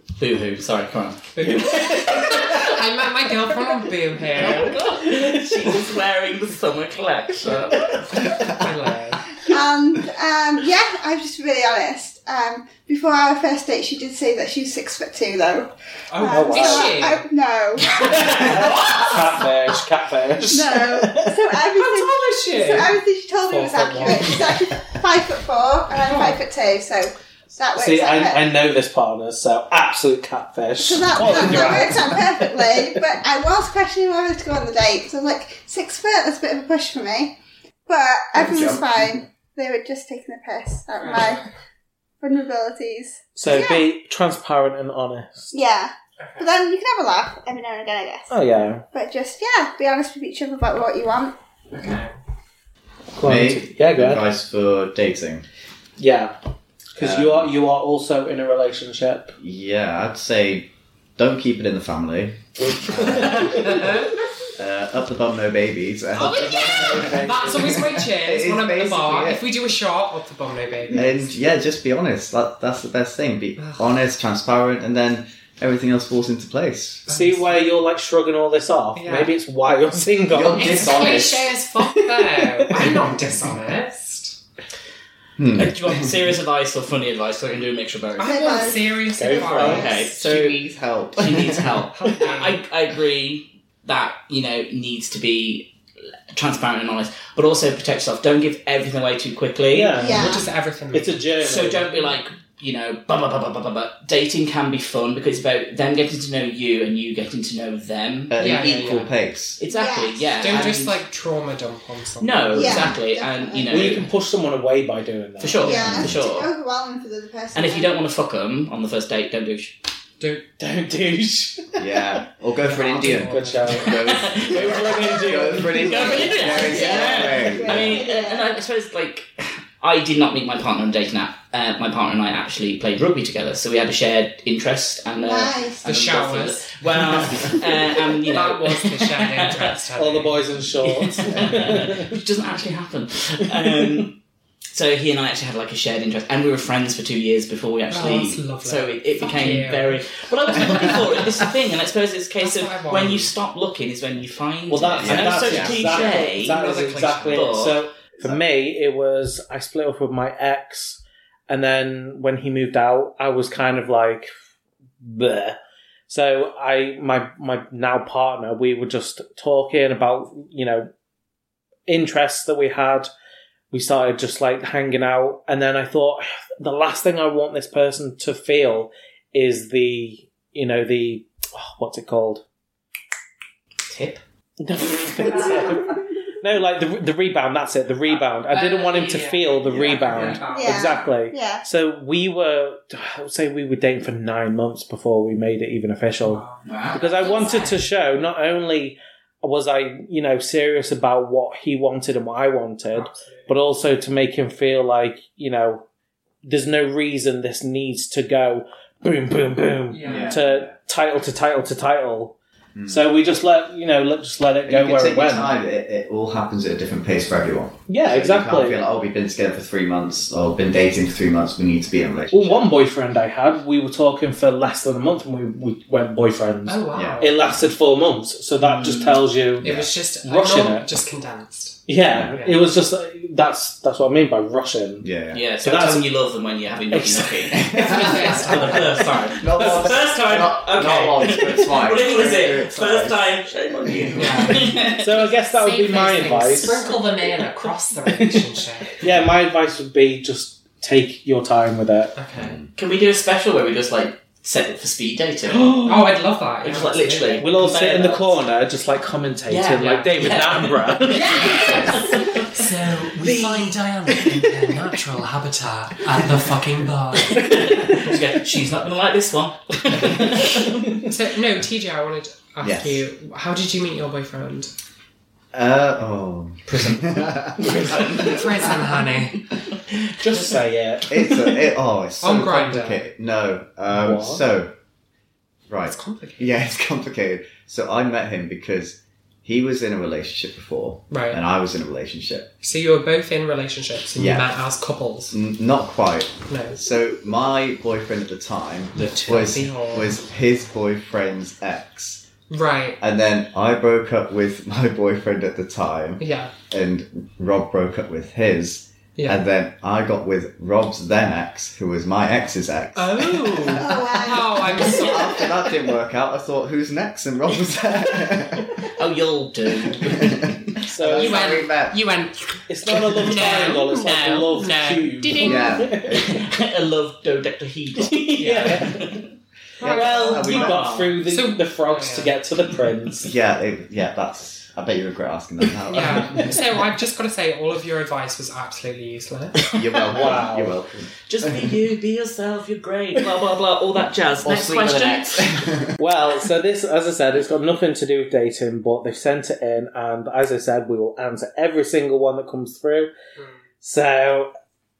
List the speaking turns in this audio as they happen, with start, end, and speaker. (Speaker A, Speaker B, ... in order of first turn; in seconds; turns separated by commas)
Speaker A: 0.2-2.6, Speaker B: 1.3-4.7, Speaker C: 1.4-2.7, Speaker A: 4.3-8.2, Speaker C: 4.4-6.0, Speaker C: 7.7-8.3, Speaker B: 8.4-9.3, Speaker D: 9.4-18.5, Speaker B: 16.1-17.2, Speaker C: 16.2-17.0, Speaker B: 17.8-19.5, Speaker A: 18.0-19.2, Speaker C: 18.0-21.4, Speaker D: 20.5-28.5, Speaker B: 21.6-24.5, Speaker B: 26.0-26.4, Speaker C: 27.7-33.0, Speaker D: 30.8-37.3, Speaker D: 37.9-41.4, Speaker E: 38.3-39.1, Speaker B: 41.0-41.5, Speaker D: 42.2-43.9, Speaker C: 43.3-45.5, Speaker D: 45.5-48.3, Speaker B: 46.2-46.5, Speaker C: 48.3-48.8, Speaker D: 48.9-51.3, Speaker B: 51.7-52.1, Speaker C: 53.1-54.2, Speaker E: 53.2-55.4, Speaker C: 56.0-56.3, Speaker C: 56.9-59.3, Speaker E: 57.0-57.5, Speaker E: 59.4-63.8, Speaker C: 62.8-63.8, Speaker B: 63.5-64.1, Speaker E: 64.5-69.4, Speaker B: 66.1-71.3, Speaker E: 70.9-77.1, Speaker B: 73.6-73.9, Speaker B: 77.1-77.6, Speaker C: 77.1-81.3, Speaker B: 78.9-79.3, Speaker E: 80.3-81.5, Speaker B: 80.5-84.4, Speaker C: 81.8-83.0, Speaker E: 85.4-86.2, Speaker A: 85.5-88.7, Speaker B: 88.2-90.2, Speaker D: 88.2-88.8, Speaker C: 89.1-89.9, Speaker A: 89.4-90.6, Speaker E: 89.8-91.8, Speaker A: 91.1-95.7, Speaker B: 91.9-92.6, Speaker A: 96.3-100.1, Speaker C: 99.7-100.4, Speaker D: 99.9-100.5, Speaker B: 100.1-101.2, Speaker C: 100.9-101.9, Speaker A: 101.4-109.1, Speaker E: 108.3-109.6, Speaker B: 108.4-109.1, Speaker A: 109.6-111.0, Speaker D: 109.6-110.6, Speaker B: 110.4-112.9, Speaker A: 112.2-114.1, Speaker D: 112.5-114.0, Speaker C: 113.7-116.1, Speaker A: 115.4-116.5, Speaker D: 115.6-117.9, Speaker B: 115.7-116.0, Speaker E: 116.0-116.2, Speaker A: 117.5-119.7, Speaker C: 120.6-122.2, Speaker E: 121.8-128.0, Speaker B: 122.6-123.9, Speaker C: 123.0-126.3, Speaker A: 123.9-139.7, Speaker D: 125.9-128.5, Speaker D: 135.2-135.9, Speaker B: 135.8-137.6, Speaker B: 138.3-140.4, Speaker C: 139.9-142.2, Speaker A: 140.8-144.2, Speaker C: 143.6-144.1, Speaker A: 144.7-157.8, Speaker B: 147.9-150.0, Speaker B: 150.6-151.3, Speaker B: 152.4-153.3, Speaker C: 154.7-164.3, Speaker E: 155.0-156.2, Speaker B: 156.4-157.5, Speaker C: 165.0-165.6, Speaker C: 166.1-170.9, Speaker C: 171.9-173.1, Speaker C: 173.7-182.4, Speaker A: 183.9-184.2, Speaker C: 184.6-205.8, Speaker B: 188.5-190.9, Speaker A: 189.7-190.4, Speaker D: 190.5-191.6, Speaker B: 196.2-196.6, Speaker A: 196.6-197.0, Speaker D: 197.1-197.7, Speaker B: 197.2-197.7, Speaker B: 202.9-203.5, Speaker C: 206.4-215.5, Speaker B: 209.9-210.4, Speaker E: 210.0-210.7, Speaker E: 212.8-213.0, Speaker E: 214.7-222.7, Speaker C: 217.9-218.8, Speaker C: 222.3-230.9, Speaker B: 226.7-227.3, Speaker E: 226.9-227.7, Speaker A: 228.6-229.2, Speaker B: 229.6-232.6, Speaker E: 229.6-229.9, Speaker C: 231.9-235.1, Speaker E: 232.0-232.3, Speaker E: 235.0-235.4, Speaker A: 235.3-245.2, Speaker C: 235.6-236.0, Speaker C: 236.9-240.0, Speaker E: 237.5-238.8, Speaker B: 237.8-238.8, Speaker E: 239.3-243.3, Speaker E: 243.9-244.3, Speaker B: 244.1-249.0, Speaker C: 244.8-247.0, Speaker C: 248.1-252.1, Speaker B: 252.2-252.6, Speaker E: 252.3-252.7, Speaker A: 252.8-255.8, Speaker C: 255.5-256.1, Speaker B: 255.8-257.5, Speaker A: 256.6-258.4, Speaker C: 257.4-262.0, Speaker A: 259.5-263.8, Speaker B: 259.8-260.3, Speaker B: 261.1-267.5, Speaker A: 267.3-271.0, Speaker B: 271.0-274.7, Speaker E: 272.6-273.0, Speaker E: 275.5-278.5, Speaker A: 276.7-278.4, Speaker C: 277.6-278.0, Speaker B: 278.1-279.4, Speaker C: 280.1-281.7, Speaker A: 280.2-280.6, Speaker E: 281.1-284.7, Speaker B: 282.2-283.0, Speaker C: 283.9-284.4, Speaker E: 285.7-292.5, Speaker B: 285.9-286.5, Speaker B: 291.1-291.4, Speaker B: 292.6-295.4, Speaker E: 294.1-294.5, Speaker E: 295.3-302.2, Speaker B: 296.5-296.8, Speaker B: 298.9-300.2, Speaker B: 302.5-303.0, Speaker E: 303.0-314.0, Speaker B: 306.2-306.5, Speaker B: 309.2-309.4, Speaker B: 312.9-315.5, Speaker D: 313.7-315.5, Speaker E: 314.7-318.8, Speaker A: 318.9-320.6, Speaker E: 319.8-322.0, Speaker C: 320.9-321.5, Speaker B: 321.1-325.9, Speaker C: 322.7-326.3, Speaker E: 325.4-326.4, Speaker A: 326.1-329.2, Speaker C: 328.0-329.2, Speaker B: 328.4-328.9, Speaker B: 329.8-332.3, Speaker E: 329.8-330.9, Speaker C: 329.8-333.3, Speaker A: 330.5-331.2, Speaker E: 333.2-336.8, Speaker B: 335.9-339.6, Speaker E: 339.7-341.5, Speaker C: 340.1-340.7, Speaker A: 341.3-345.6, Speaker E: 344.4-345.9, Speaker C: 346.0-353.1, Speaker C: 353.8-354.5